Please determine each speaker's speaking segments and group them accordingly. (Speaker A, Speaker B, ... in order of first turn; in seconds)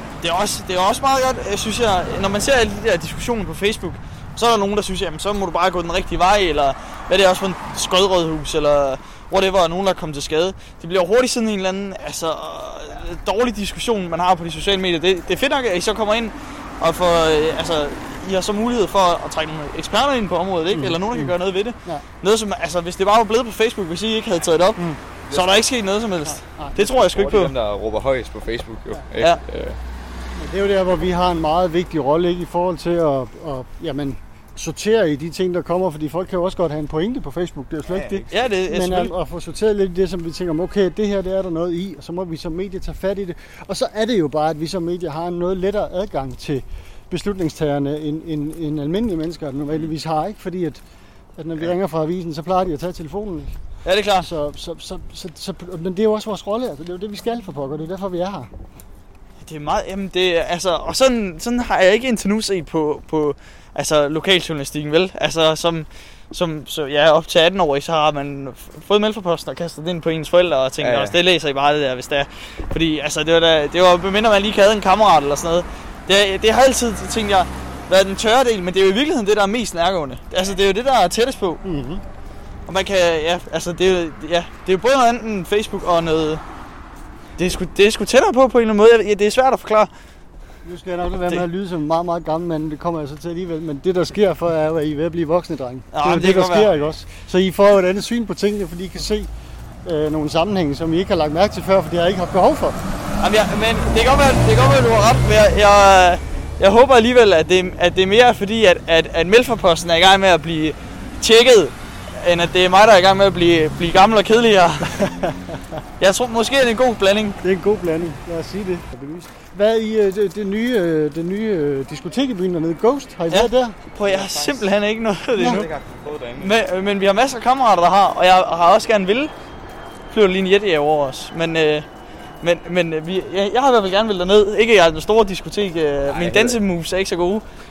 Speaker A: 0.2-27.5, 38.3-39.1, 53.8-54.3, 59.4-81.6, 82.7-86.4, 87.4-89.9, 95.9-96.7, 103.2-115.0, 116.0-117.4, 123.3-125.7, 126.4-129.3, 130.1-131.8, 132.4-137.4
Speaker B: 20.7-22.0, 26.2-26.8, 30.4-50.8, 51.4-53.5, 54.2-58.5, 81.6-82.0, 90.6-99.3, 99.8-102.8, 114.9-115.8, 117.4-123.8, 125.3-125.7
Speaker C: 25.2-25.7, 26.8-29.8, 37.9-38.3, 70.8-71.2, 124.0-124.7, 125.3-126.6, 136.1-136.6